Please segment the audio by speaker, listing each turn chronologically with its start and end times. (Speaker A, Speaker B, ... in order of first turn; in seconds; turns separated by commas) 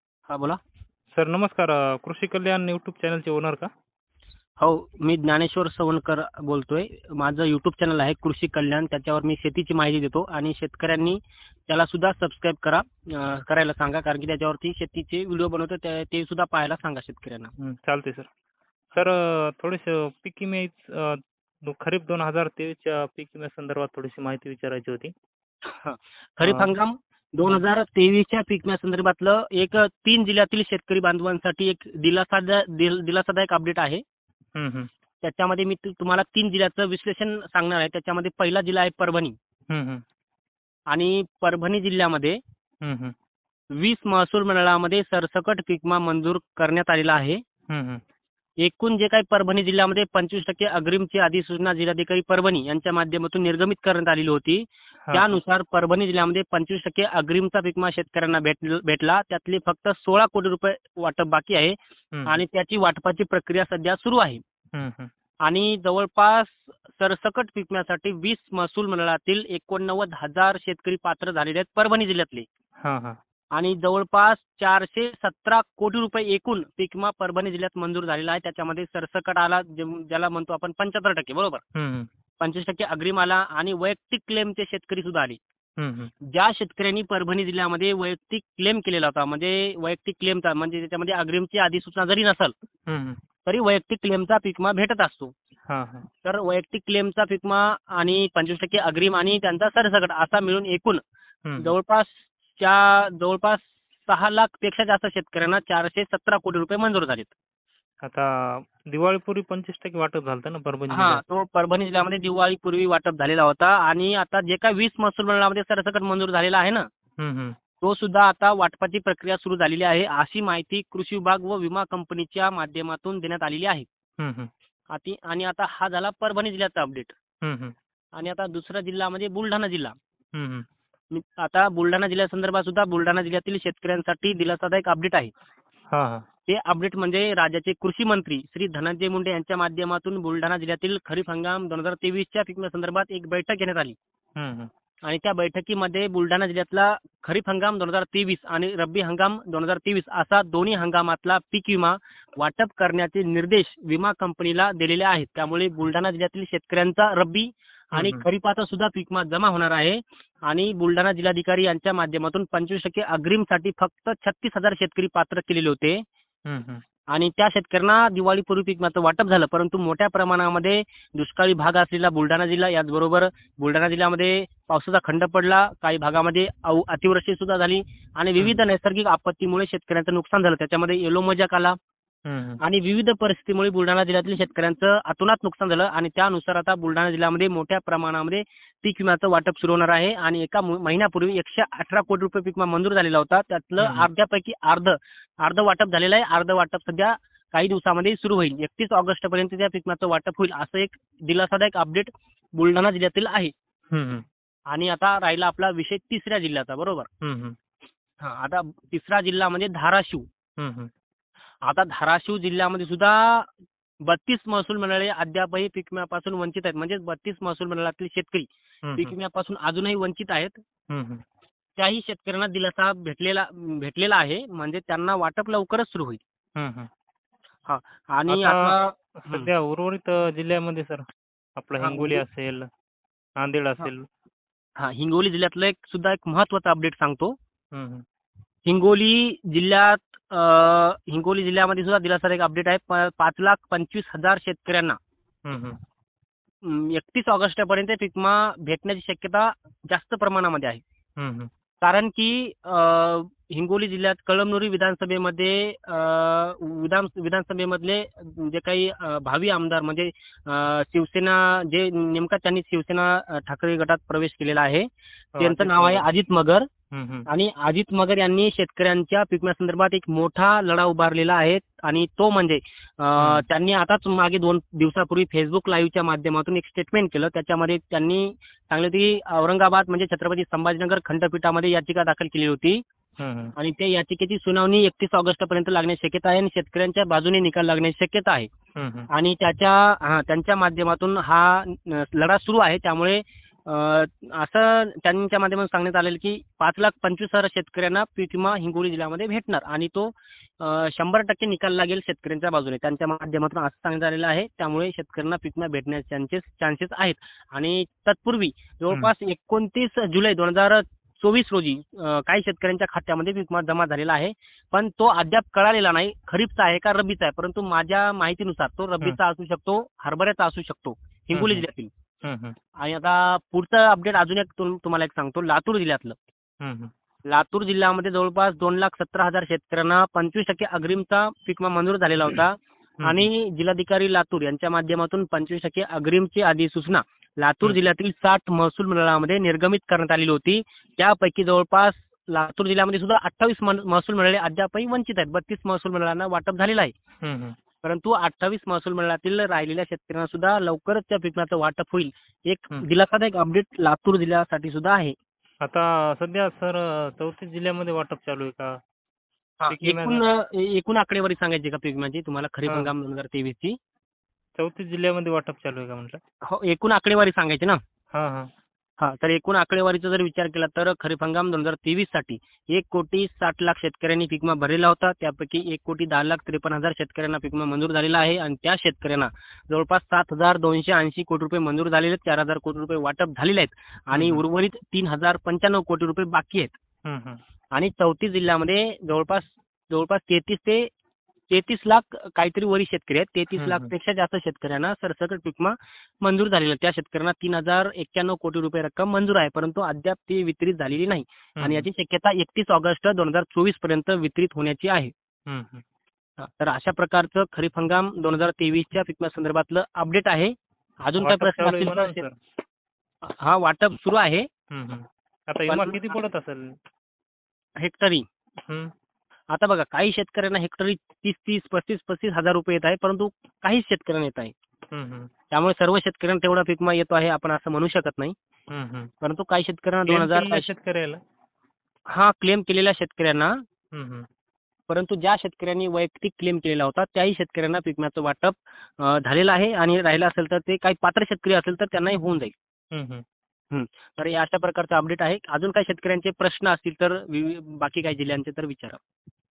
Speaker A: 0.3-0.6, Speaker B: 1.1-3.7, Speaker A: 4.6-17.5, Speaker B: 17.6-18.3, Speaker B: 18.9-25.1, Speaker A: 25.7-34.0, Speaker B: 26.4-26.7, Speaker B: 34.6-34.9, Speaker A: 35.2-39.4, Speaker B: 39.7-40.0, Speaker A: 40.9-42.4, Speaker B: 42.8-43.1, Speaker A: 43.7-47.4, Speaker B: 47.7-48.0, Speaker A: 48.6-64.4, Speaker B: 55.1-55.3, Speaker B: 62.1-62.4, Speaker B: 64.8-65.1, Speaker A: 65.4-72.5, Speaker B: 72.8-73.2, Speaker A: 73.5-81.6, Speaker B: 81.8-82.1, Speaker A: 82.4-85.4, Speaker B: 85.8-86.1, Speaker A: 86.2-92.5, Speaker B: 92.9-93.2, Speaker A: 93.5-95.3, Speaker B: 95.7-96.1, Speaker A: 96.2-101.0, Speaker B: 101.5-101.7, Speaker A: 101.6-107.3, Speaker B: 108.0-111.2, Speaker A: 110.9-116.9, Speaker B: 117.2-117.6, Speaker A: 117.8-123.9, Speaker B: 124.2-124.5, Speaker A: 124.9-127.2, Speaker B: 127.4-127.8, Speaker A: 128.2-130.0, Speaker B: 130.3-130.7, Speaker A: 131.1-135.3, Speaker B: 135.9-136.3, Speaker A: 136.5-144.0, Speaker B: 144.4-144.7, Speaker A: 145.0-166.1, Speaker B: 158.0-158.2, Speaker B: 166.5-166.8, Speaker A: 167.1-181.8, Speaker B: 182.3-182.6, Speaker A: 182.6-203.5, Speaker B: 193.8-194.1, Speaker B: 203.9-204.2, Speaker A: 204.7-207.1, Speaker B: 207.2-207.6, Speaker A: 208.2-210.3, Speaker B: 210.6-210.9, Speaker A: 211.6-213.5, Speaker A: 214.1-220.6, Speaker B: 218.9-219.1, Speaker B: 220.9-221.2, Speaker A: 221.8-226.2, Speaker B: 226.6-226.9, Speaker A: 227.7-229.5, Speaker B: 228.3-231.1, Speaker B: 231.6-232.7, Speaker A: 231.8-232.2, Speaker B: 233.4-234.1, Speaker A: 234.8-237.4, Speaker B: 237.7-238.1, Speaker A: 238.7-245.0, Speaker B: 245.5-245.8, Speaker A: 246.6-250.8, Speaker B: 251.2-251.5, Speaker A: 251.8-266.7, Speaker B: 265.4-266.0, Speaker B: 266.9-267.3, Speaker A: 267.3-282.8, Speaker B: 273.2-273.4, Speaker B: 283.2-283.5, Speaker A: 283.6-288.5, Speaker B: 288.8-289.1, Speaker A: 289.1-321.9, Speaker B: 321.3-321.7, Speaker B: 322.2-322.6, Speaker A: 322.8-326.2, Speaker B: 326.6-326.9, Speaker A: 327.3-346.9, Speaker B: 347.2-347.6, Speaker A: 347.8-355.2, Speaker B: 355.6-358.8, Speaker A: 359.6-363.8, Speaker B: 359.7-360.2, Speaker B: 364.6-366.2, Speaker A: 366.5-367.8, Speaker B: 368.1-368.5, Speaker A: 369.0-386.7, Speaker B: 384.1-384.4, Speaker B: 387.1-387.4, Speaker A: 387.7-390.9, Speaker A: 391.5-405.1, Speaker B: 393.5-393.9, Speaker B: 401.6-401.9, Speaker B: 405.5-405.8, Speaker A: 406.4-412.2, Speaker B: 411.2-412.4, Speaker A: 413.2-414.5, Speaker B: 414.7-416.8, Speaker A: 415.7-416.1, Speaker A: 417.8-418.2, Speaker B: 418.6-418.9, Speaker A: 419.5-424.5, Speaker B: 424.9-425.3, Speaker A: 425.5-428.4, Speaker B: 428.7-429.1, Speaker A: 429.2-430.7, Speaker B: 430.1-431.2, Speaker A: 432.1-433.6, Speaker B: 433.9-434.3, Speaker A: 434.9-442.5, Speaker B: 442.9-443.2, Speaker A: 443.7-449.0